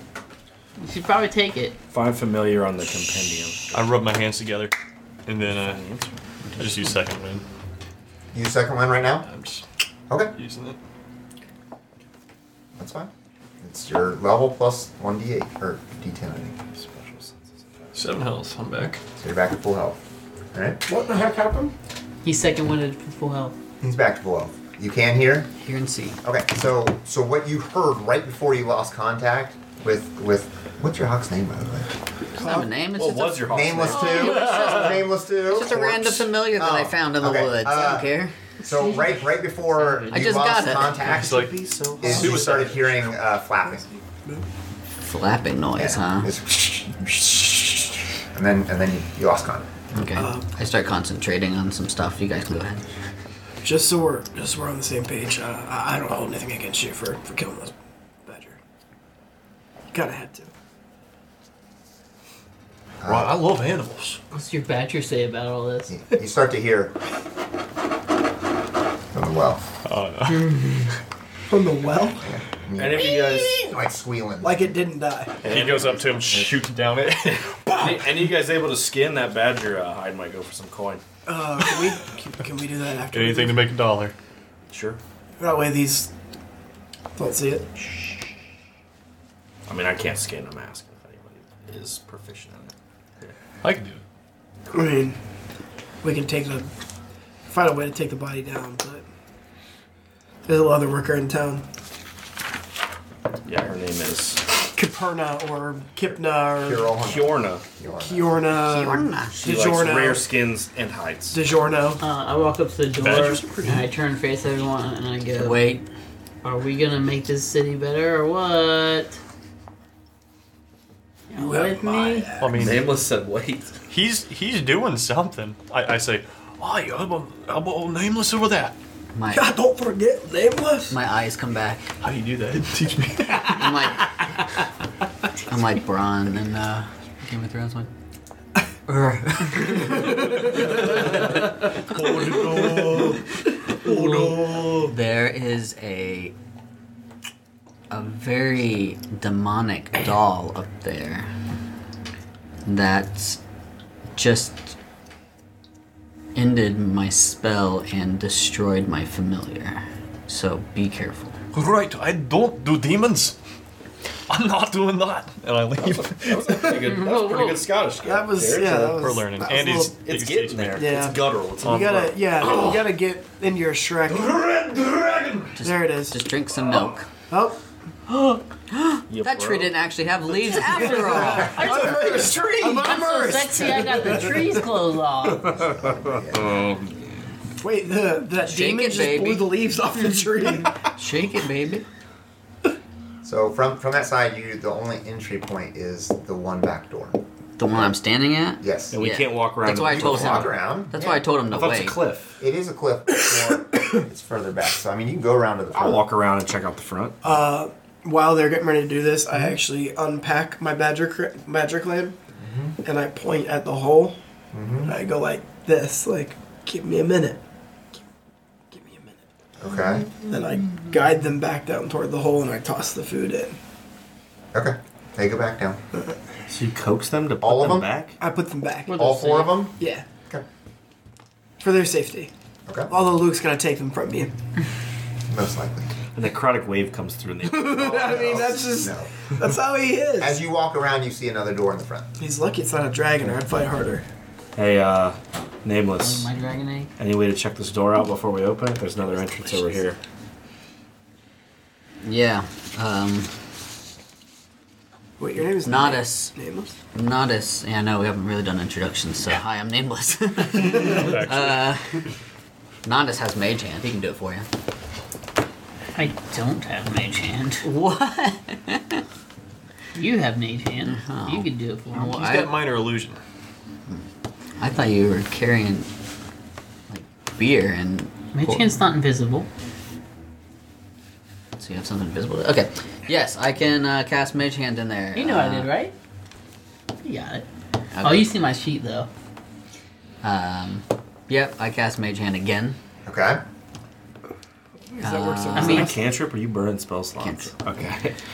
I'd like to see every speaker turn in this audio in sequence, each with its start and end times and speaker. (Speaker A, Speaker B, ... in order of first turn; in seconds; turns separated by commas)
Speaker A: 0.8-1.7, Speaker B: 1.9-3.8, Speaker C: 3.7-4.7, Speaker C: 5.3-6.0, Speaker B: 5.4-6.1, Speaker C: 6.5-7.4, Speaker D: 8.3-9.3, Speaker C: 9.2-9.6, Speaker C: 10.3-10.8, Speaker D: 12.8-13.1, Speaker D: 13.6-16.6, Speaker B: 16.7-18.1, Speaker C: 17.9-19.0, Speaker D: 19.2-20.0, Speaker D: 20.5-20.8, Speaker E: 20.9-21.7, Speaker A: 22.2-23.6, Speaker D: 23.8-25.5, Speaker F: 25.6-26.2, Speaker D: 26.2-31.9, Speaker F: 32.3-38.3, Speaker E: 32.4-32.7, Speaker B: 32.9-34.8, Speaker D: 33.5-38.1, Speaker D: 38.6-41.5, Speaker A: 39.7-40.2, Speaker F: 40.1-41.0, Speaker B: 41.0-42.4, Speaker C: 41.0-43.1, Speaker D: 42.0-43.9, Speaker E: 43.7-44.4, Speaker F: 45.0-46.3, Speaker D: 45.8-49.8, Speaker F: 50.0-52.8, Speaker E: 50.2-50.5, Speaker E: 53.6-57.7, Speaker E: 58.2-58.6, Speaker E: 59.9-60.5, Speaker D: 63.0-63.4, Speaker C: 63.0-64.2, Speaker A: 64.3-65.9, Speaker D: 65.9-66.9, Speaker D: 69.1-69.6, Speaker C: 69.8-70.6, Speaker E: 71.5-72.3, Speaker D: 72.2-74.7, Speaker B: 72.8-73.6, Speaker E: 74.4-75.5, Speaker B: 75.4-75.9, Speaker C: 75.4-78.2, Speaker D: 75.5-76.6, Speaker B: 77.8-81.0, Speaker E: 81.3-83.7, Speaker C: 83.1-84.1, Speaker B: 84.7-85.0, Speaker E: 85.4-86.1, Speaker E: 87.2-87.7, Speaker B: 89.7-93.3, Speaker C: 93.6-94.0, Speaker E: 94.7-95.2, Speaker E: 96.0-96.7, Speaker E: 97.5-99.0, Speaker E: 100.4-101.6, Speaker B: 103.5-104.5, Speaker E: 104.7-106.9, Speaker D: 106.6-108.4, Speaker B: 107.0-107.6, Speaker E: 107.9-110.2, Speaker F: 108.6-109.4, Speaker B: 109.3-111.4, Speaker E: 111.3-112.0, Speaker A: 112.0-115.6, Speaker C: 113.0-113.9, Speaker F: 115.3-115.8, Speaker A: 116.4-119.2, Speaker A: 121.3-122.3, Speaker E: 121.3-122.7, Speaker C: 122.4-122.9, Speaker B: 122.5-123.8, Speaker C: 123.9-128.8, Speaker F: 129.1-129.5, Speaker E: 129.3-131.0, Speaker F: 130.9-131.8, Speaker C: 132.0-133.8, Speaker F: 133.4-134.2, Speaker F: 135.5-137.9, Speaker F: 138.9-140.3, Speaker B: 140.8-141.2, Speaker C: 141.9-142.9, Speaker B: 142.2-143.2, Speaker F: 143.8-146.3, Speaker B: 143.8-144.9, Speaker F: 147.9-151.3, Speaker F: 152.7-153.4, Speaker F: 154.1-154.8, Speaker F: 156.3-161.4, Speaker C: 161.5-163.3, Speaker C: 164.3-166.8, Speaker B: 165.8-169.0, Speaker A: 166.8-167.7, Speaker E: 168.0-170.0, Speaker C: 168.9-170.9, Speaker B: 170.0-172.1, Speaker E: 170.7-174.3, Speaker C: 171.7-172.9, Speaker C: 174.1-175.5, Speaker F: 175.6-177.1, Speaker E: 175.6-176.2, Speaker E: 177.2-177.6, Speaker F: 178.7-181.7, Speaker B: 179.1-179.8, Speaker B: 180.5-181.2, Speaker E: 180.7-184.7, Speaker A: 181.4-185.5, Speaker B: 185.4-187.3, Speaker D: 185.6-186.6, Speaker E: 187.6-190.9, Speaker F: 188.4-189.6, Speaker F: 190.4-191.8, Speaker D: 193.2-197.2, Speaker F: 197.6-202.0, Speaker D: 198.6-199.0, Speaker B: 198.9-200.5, Speaker D: 199.9-201.2, Speaker B: 201.5-202.3, Speaker D: 202.4-206.1, Speaker B: 205.7-207.2, Speaker E: 207.2-212.1, Speaker D: 212.4-212.7, Speaker E: 212.8-214.2, Speaker D: 214.5-214.9, Speaker E: 214.8-217.4, Speaker E: 218.7-219.2, Speaker D: 219.6-220.1, Speaker E: 220.2-223.5, Speaker D: 224.5-225.8, Speaker B: 226.5-228.2, Speaker D: 227.4-227.9, Speaker E: 228.2-229.0, Speaker A: 228.9-229.6, Speaker D: 228.9-229.8, Speaker E: 229.8-230.0, Speaker E: 231.6-232.3, Speaker D: 232.7-232.9, Speaker E: 232.9-234.3, Speaker D: 235.3-235.9, Speaker B: 236.1-238.4, Speaker E: 237.4-240.4, Speaker D: 237.9-239.1, Speaker D: 240.2-242.1, Speaker E: 242.2-244.0, Speaker B: 244.6-246.3, Speaker A: 246.0-246.9, Speaker B: 247.0-250.0, Speaker F: 252.0-253.3, Speaker E: 255.2-256.8, Speaker F: 255.5-256.3, Speaker F: 256.9-262.0, Speaker C: 260.9-261.7, Speaker F: 262.8-264.5, Speaker A: 265.9-267.7, Speaker F: 267.6-269.0, Speaker A: 269.9-272.2, Speaker F: 270.8-271.5, Speaker C: 271.9-273.2, Speaker F: 272.1-272.6, Speaker F: 274.6-275.9, Speaker F: 276.9-278.8, Speaker A: 278.3-279.5, Speaker F: 281.6-285.7, Speaker A: 285.1-285.9, Speaker A: 287.0-287.4, Speaker F: 287.9-288.3, Speaker A: 288.0-289.1, Speaker F: 290.2-292.8, Speaker D: 293.0-293.4, Speaker E: 294.9-296.1, Speaker F: 295.0-295.9, Speaker A: 295.5-295.9, Speaker B: 295.6-298.1, Speaker F: 297.2-297.5